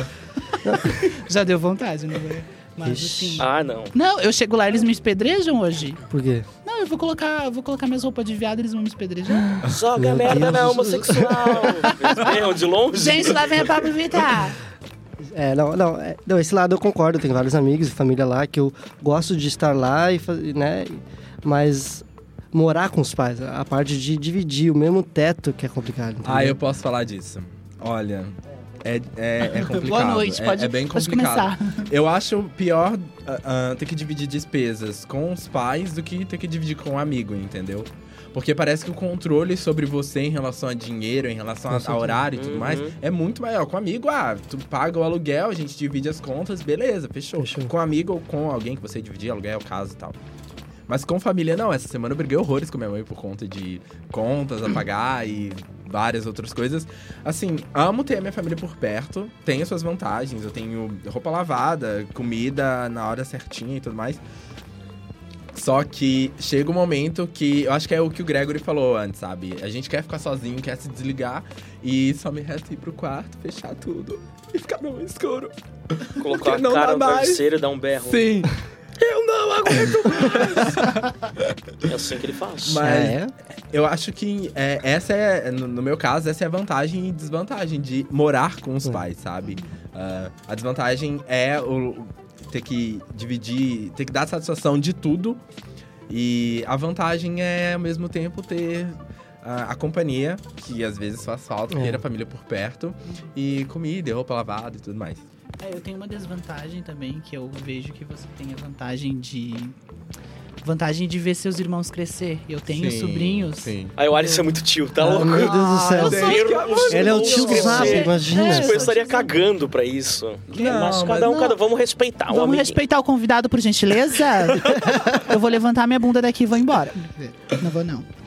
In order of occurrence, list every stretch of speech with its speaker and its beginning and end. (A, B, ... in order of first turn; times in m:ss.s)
0:00.6-0:01.0 A
0:00.7-0:06.0 B
0:02.8-0:03.5 A
0:03.4-0:03.9 C
0:06.1-0:06.5 A
0:06.6-0:09.6 B
0:09.6-0:13.7 C
0:10.0-0:11.9 A
0:11.9-0:12.3 B
0:12.9-0:14.6 B
0:15.2-0:26.6 A
0:26.2-0:50.2 D
0:29.4-0:31.9 B
0:41.7-0:42.3 A
0:42.3-0:43.0 C
0:47.4-0:47.7 A
0:50.9-1:04.2 D
1:05.5-1:17.4 D
1:16.2-1:18.2 C
1:18.0-1:18.6 D
1:19.0-1:20.9 C
1:19.7-1:21.0 D
1:21.8-1:22.8 C
1:22.6-1:23.2 D
1:22.8-1:23.3 A
1:23.7-1:35.4 D
1:36.1-1:45.3 D
1:41.7-1:42.0 A
1:45.6-1:49.8 B
1:50.6-1:53.8 B
1:52.7-1:54.0 D
1:54.0-2:02.8 C
1:55.0-1:58.9 A
1:55.2-1:59.4 B
1:56.0-1:58.0 D
2:00.5-2:01.0 B
2:00.5-2:01.6 D
2:02.3-2:08.1 B